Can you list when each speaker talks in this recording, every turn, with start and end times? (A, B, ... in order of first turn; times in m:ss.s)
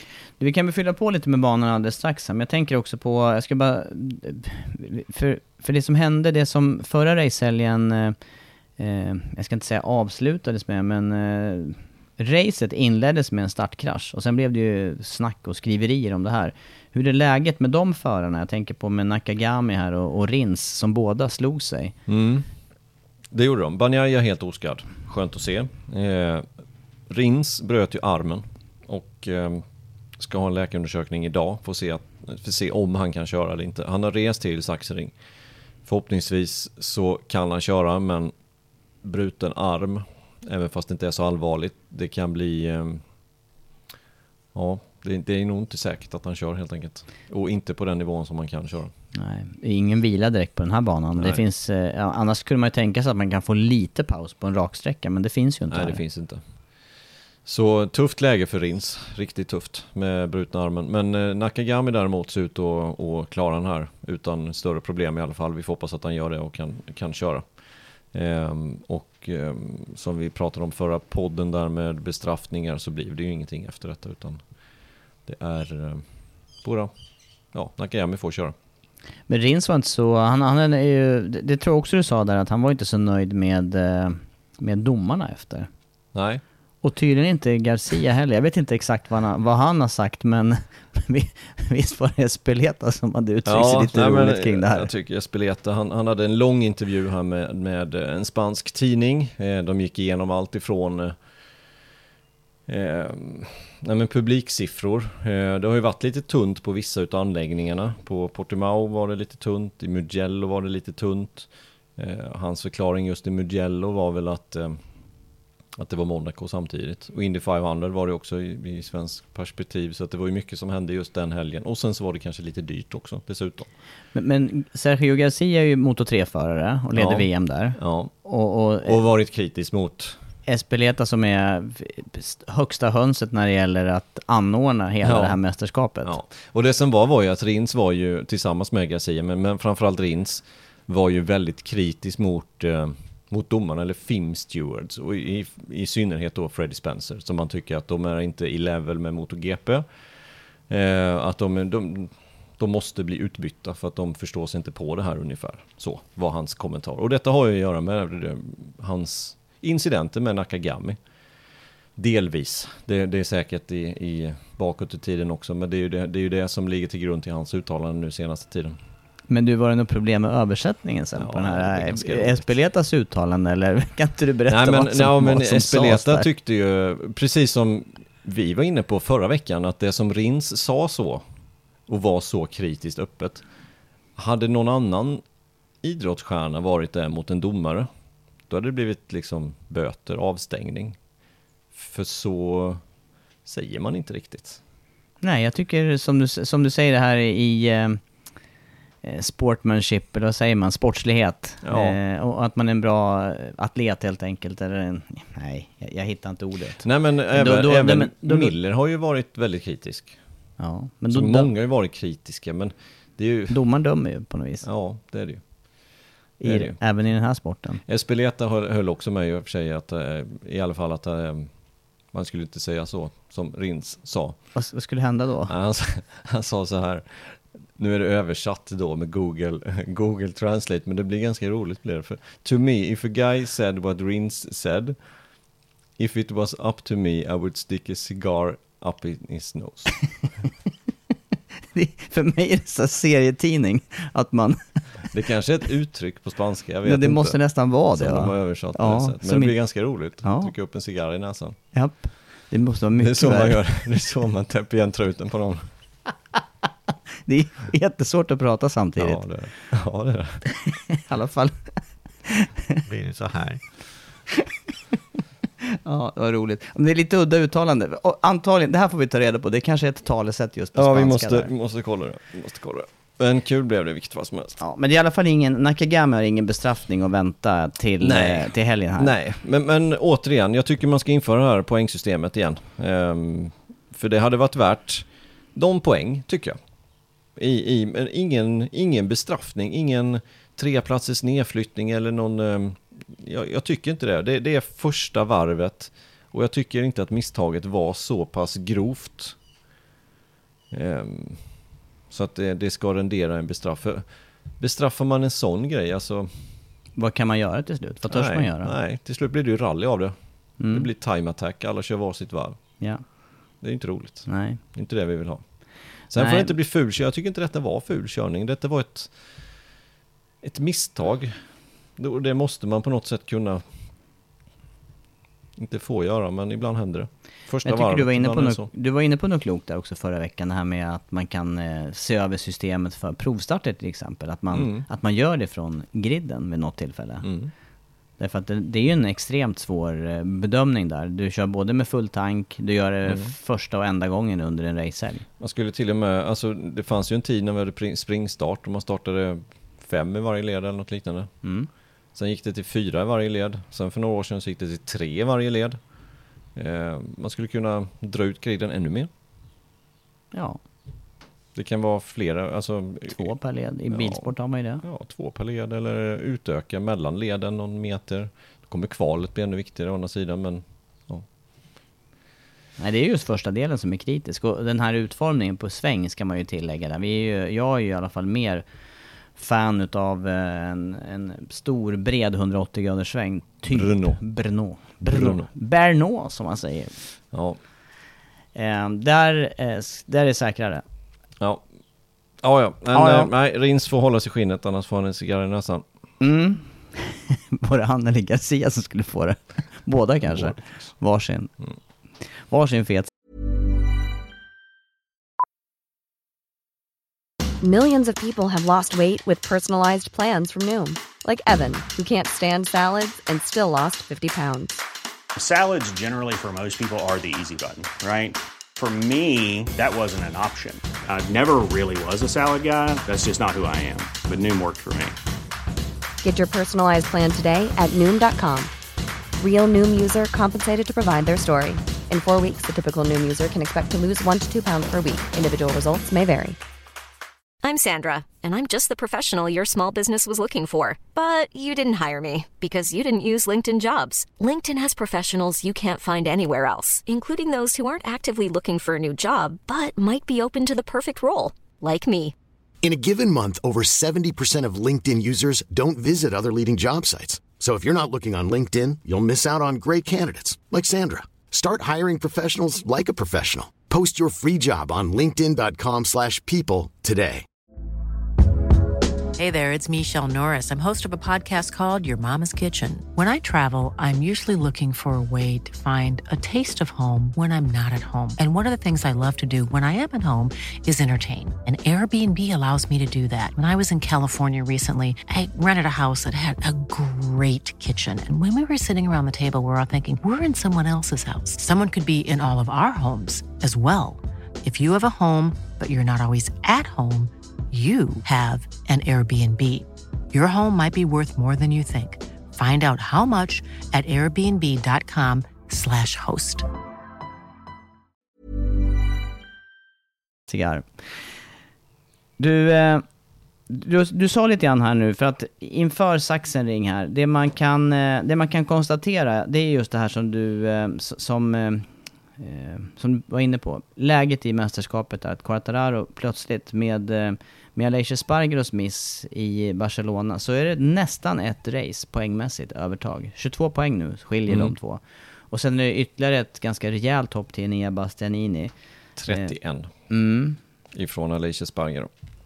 0:00.4-0:08.2 A
0:08.8-0:21.9 A
0:22.1-0:22.5 B
0:23.3-0:26.4 B
0:27.1-0:29.6 B
0:30.2-0:35.1 B
0:35.8-0:38.3 B
0:39.0-0:43.0 B
0:44.5-0:48.9 B
0:49.1-0:56.0 A
0:51.2-0:51.4 B
0:55.7-0:56.4 B
0:57.4-1:07.5 B
1:08.1-1:14.4 B
1:15.2-1:16.0 B
1:16.6-1:16.9 B
1:17.5-1:18.5 B
1:19.3-1:25.7 A
1:26.1-1:26.4 B
1:26.8-1:34.9 A
1:33.4-1:41.2 B
1:42.7-1:54.8 B
1:55.8-2:03.7 B
2:04.1-2:09.0 A
2:06.9-2:08.1 B
2:08.8-2:10.2 B
2:10.4-2:16.2 A
2:15.0-2:15.4 B
2:16.0-2:29.8 B
2:30.7-2:41.0 B
2:42.0-2:48.8 B
2:49.3-2:56.3 A
2:51.2-2:52.5 B
2:54.5-3:01.2 B
3:01.9-3:03.4 B
3:04.2-3:05.2 B
3:05.8-3:07.9 B
3:08.5-3:11.0 B
3:11.7-3:12.8 B
3:13.4-3:14.6 B
3:15.2-3:18.0 A
3:19.0-3:28.5 A
3:21.6-3:22.0 B
3:26.8-3:30.2 B
3:30.6-3:31.5 A
3:31.1-3:33.6 B
3:33.5-3:34.6 A
3:34.6-3:35.4 B
3:36.4-3:37.8 A
3:36.4-3:36.8 B
3:37.8-3:41.5 B
3:42.1-3:44.4 B
3:44.5-3:45.5 A
3:45.5-3:55.0 B
3:56.0-4:00.0 B
4:01.7-4:05.1 A
4:05.1-4:11.6 B
4:06.8-4:10.5 A
4:11.7-4:13.6 A
4:13.0-4:15.7 B
4:17.2-4:19.2 A
4:19.0-4:20.4 B
4:20.7-4:22.8 A
4:22.9-4:23.6 B
4:25.8-4:31.5 A
4:30.7-4:34.6 B
4:34.6-4:39.1 A
4:38.0-4:46.6 B
4:47.4-4:59.4 B
5:00.7-5:01.5 B
5:02.1-5:04.0 B
5:04.6-5:06.5 B
5:07.0-5:08.7 A
5:08.1-5:12.8 B
5:10.6-5:10.9 A
5:13.6-5:15.4 B
5:14.3-5:14.6 A
5:16.1-5:19.3 B
5:16.1-5:16.5 A
5:20.4-5:21.3 B
5:22.0-5:23.6 B
5:25.6-5:28.7 B
5:27.6-5:37.3 A
5:34.5-5:34.8 B
5:37.2-5:37.5 B
5:38.2-5:45.2 A
5:43.0-5:43.3 B
5:45.4-5:51.3 B
5:51.4-5:51.7 A
5:52.1-5:55.8 B
5:56.5-5:59.1 B
6:00.3-6:00.6 A
6:01.5-6:03.3 B
6:03.1-6:04.8 A
6:03.9-6:04.3 B
6:04.8-6:11.2 B
6:12.8-6:18.6 A
6:19.3-6:26.9 A
6:23.7-6:24.2 B
6:25.0-6:25.5 B
6:27.3-6:27.6 B
6:28.5-6:30.8 A
6:32.4-6:35.8 B
6:32.9-6:33.3 A
6:36.2-6:41.5 A
6:40.2-6:40.6 B
6:42.5-6:43.1 A
6:47.6-6:54.8 C
6:55.3-7:05.2 D
7:06.2-7:08.7 C
7:09.4-7:16.6 C
7:17.6-7:32.3 E
7:32.8-7:47.4 F
7:49.4-8:26.6 G
8:30.5-8:31.1 A
8:32.4-8:33.0 A
8:33.7-8:58.7 A
8:54.5-8:54.7 B
8:59.2-8:59.9 B
9:00.1-9:00.6 A
9:00.9-9:02.1 B